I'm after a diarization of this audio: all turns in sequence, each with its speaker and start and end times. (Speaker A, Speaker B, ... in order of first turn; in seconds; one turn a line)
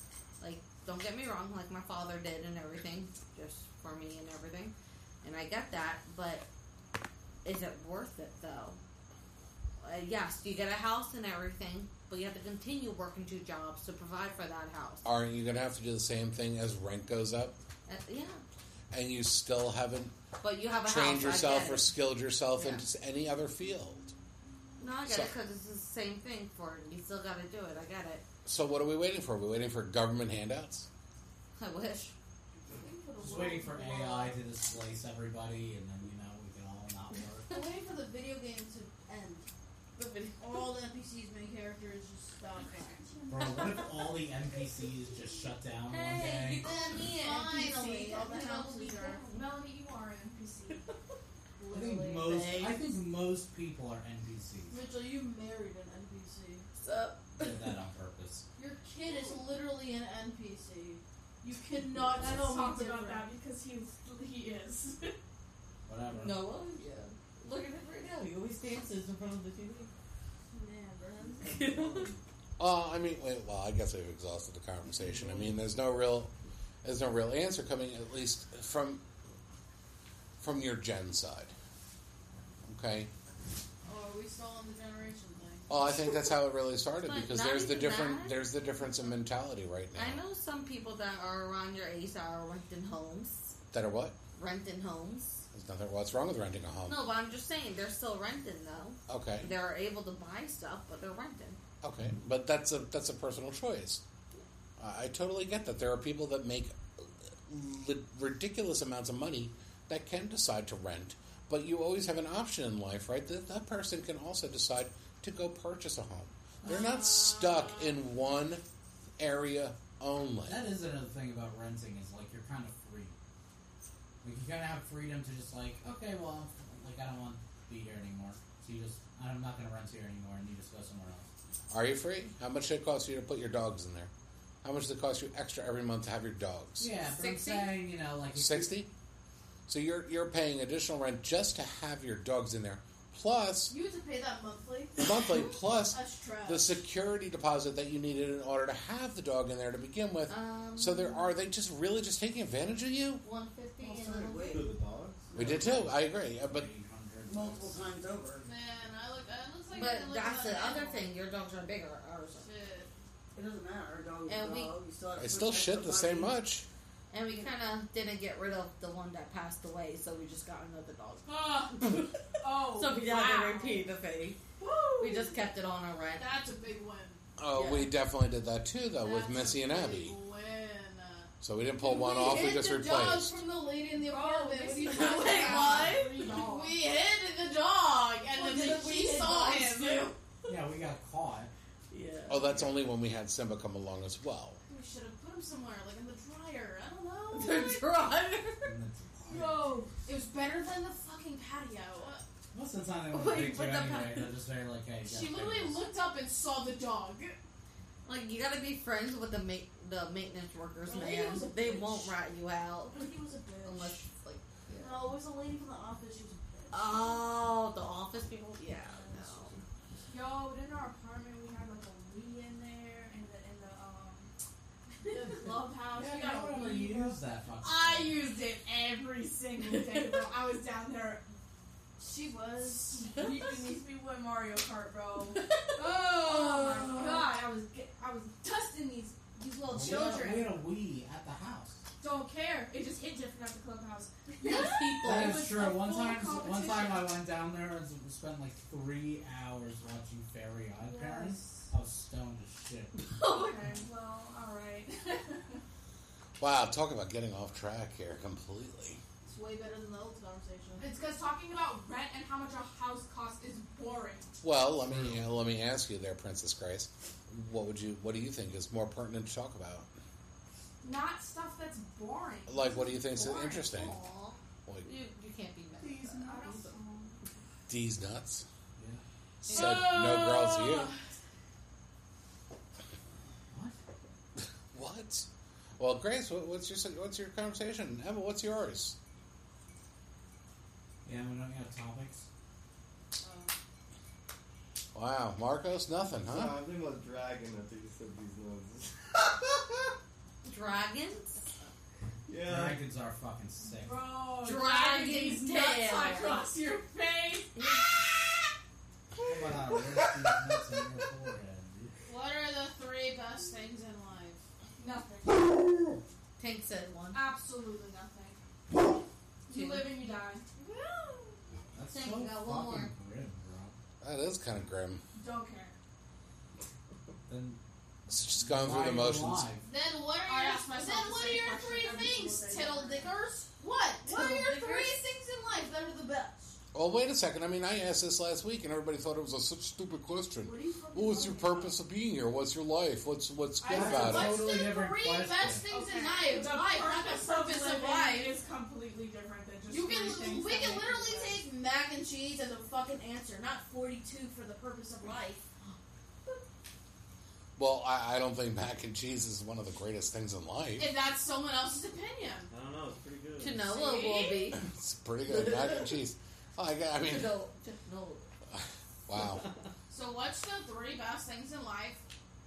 Speaker A: 0.4-6.5
Speaker A: 7.4-8.8
Speaker A: 9.8-15.1
Speaker B: 15.0-17.6
Speaker A: 17.9-18.4
Speaker B: 18.9-20.1
Speaker A: 20.4-21.9
Speaker B: 20.8-24.2
Speaker A: 22.6-22.9
Speaker A: 24.8-28.2
Speaker B: 25.1-25.4
Speaker B: 28.4-30.9
Speaker A: 31.6-32.1
Speaker C: 32.7-34.4
Speaker D: 33.2-37.5
Speaker C: 37.5-39.5
Speaker A: 40.0-40.7
Speaker C: 40.4-43.3
Speaker E: 43.0-43.8
Speaker D: 43.3-46.7
Speaker A: 43.5-43.9
Speaker A: 45.9-49.2
Speaker C: 46.6-49.2
Speaker E: 48.4-50.9
Speaker C: 51.6-52.7
Speaker D: 51.7-54.8
Speaker C: 54.7-56.7
Speaker A: 56.8-57.8
Speaker D: 57.3-58.5
Speaker C: 58.6-63.3
Speaker E: 62.1-65.2
Speaker D: 65.9-66.4
Speaker A: 66.1-69.9
Speaker C: 70.5-71.7
Speaker A: 71.4-72.1
Speaker F: 71.8-72.1
Speaker B: 72.6-79.0
Speaker F: 75.0-75.5
Speaker B: 80.4-81.5
Speaker B: 82.7-83.1
Speaker C: 83.8-85.8
Speaker B: 85.7-90.2
Speaker A: 87.0-88.4
Speaker A: 90.0-93.6
Speaker B: 93.7-94.2
Speaker A: 94.3-95.5
Speaker B: 95.5-97.0
Speaker A: 96.9-101.6
Speaker B: 99.1-99.5
Speaker B: 101.8-104.0
Speaker B: 104.8-118.6
Speaker C: 116.7-118.0
Speaker B: 119.2-120.7
Speaker D: 120.5-123.1
Speaker D: 124.2-131.3
Speaker B: 131.7-134.1
Speaker B: 134.6-136.9
Speaker D: 136.8-138.7
Speaker A: 137.0-137.8
Speaker B: 138.3-138.9
Speaker B: 139.7-143.7
Speaker C: 143.7-145.2
Speaker B: 145.0-153.2
Speaker C: 145.9-146.8
Speaker A: 150.3-151.3
Speaker A: 153.2-154.7
Speaker G: 153.8-154.7
Speaker F: 154.1-155.5
Speaker G: 155.3-155.8
Speaker D: 155.3-157.9
Speaker B: 155.3-156.7
Speaker G: 157.2-158.5
Speaker C: 158.4-161.1
Speaker A: 159.7-162.5
Speaker C: 162.3-162.9
Speaker G: 163.3-166.4
Speaker A: 164.3-164.8
Speaker B: 165.2-166.7
Speaker A: 167.1-174.4
Speaker E: 171.3-173.9
Speaker E: 174.6-175.4
Speaker A: 175.0-176.4
Speaker C: 176.2-177.2
Speaker B: 177.4-180.2
Speaker A: 177.5-177.9
Speaker C: 179.0-190.1
Speaker B: 181.4-183.4
Speaker E: 183.9-186.8
Speaker A: 184.8-186.4
Speaker G: 188.4-190.1
Speaker A: 188.4-190.1
Speaker D: 190.5-191.5
Speaker A: 191.9-192.5
Speaker B: 192.3-194.6
Speaker C: 194.7-197.8
Speaker A: 197.3-198.8
Speaker D: 198.6-199.8
Speaker E: 199.3-200.0
Speaker C: 200.0-202.2
Speaker D: 202.5-205.8
Speaker A: 203.1-204.3
Speaker C: 205.1-207.3
Speaker E: 205.5-205.9
Speaker E: 206.5-206.8
Speaker A: 208.1-213.1
Speaker E: 210.9-212.0
Speaker C: 210.9-212.0
Speaker E: 212.9-214.0
Speaker A: 213.6-215.1
Speaker C: 214.8-217.2
Speaker A: 216.7-219.6
Speaker E: 220.1-224.3
Speaker E: 225.0-225.4
Speaker C: 225.0-227.2
Speaker D: 225.9-228.2
Speaker E: 227.6-231.3
Speaker C: 232.0-233.2
Speaker E: 233.0-240.6
Speaker A: 235.4-237.2
Speaker D: 239.7-241.8
Speaker E: 242.0-247.2
Speaker A: 244.4-245.6
Speaker D: 245.0-252.9
Speaker E: 250.8-251.7
Speaker A: 253.1-253.8
Speaker E: 253.2-255.6
Speaker B: 256.4-259.0
Speaker C: 259.2-260.9
Speaker E: 260.8-264.4
Speaker B: 264.4-269.9
Speaker D: 264.9-265.3
Speaker E: 270.8-273.3
Speaker B: 272.5-274.0
Speaker A: 273.2-276.8
Speaker B: 274.7-274.9
Speaker D: 275.8-276.2
Speaker E: 276.1-277.2
Speaker B: 277.7-278.5
Speaker B: 279.4-280.9
Speaker E: 279.5-280.9
Speaker B: 284.7-289.0
Speaker D: 291.1-292.3
Speaker C: 293.2-293.5
Speaker B: 294.9-296.5
Speaker F: 296.2-299.8
Speaker A: 300.4-301.4
Speaker F: 302.3-302.9
Speaker D: 302.4-304.0
Speaker E: 303.7-307.6
Speaker A: 304.4-306.4
Speaker A: 307.6-308.0
Speaker D: 309.2-311.9
Speaker F: 309.4-310.1
Speaker C: 312.1-314.4
Speaker E: 314.8-315.4
Speaker A: 316.4-317.2
Speaker E: 317.1-318.4
Speaker E: 319.5-320.4
Speaker A: 319.5-319.9
Speaker C: 320.6-321.4
Speaker D: 321.7-323.8
Speaker A: 321.9-322.9
Speaker B: 324.0-325.0
Speaker E: 325.1-325.8
Speaker D: 327.3-327.6
Speaker B: 328.1-329.5
Speaker D: 328.3-329.7
Speaker C: 329.6-336.6
Speaker E: 330.3-332.2
Speaker G: 332.0-333.1
Speaker A: 334.0-335.1
Speaker B: 336.7-344.5
Speaker C: 340.4-341.4
Speaker E: 340.9-341.7
Speaker C: 343.6-348.4
Speaker D: 343.7-345.6
Speaker E: 345.7-351.4
Speaker C: 349.7-355.4
Speaker B: 357.6-360.9
Speaker C: 360.8-362.5
Speaker F: 362.5-363.7
Speaker A: 363.4-364.6
Speaker C: 363.7-364.5
Speaker B: 364.6-367.4
Speaker A: 365.3-366.0
Speaker A: 367.0-368.2
Speaker B: 368.5-369.5
Speaker C: 369.9-372.0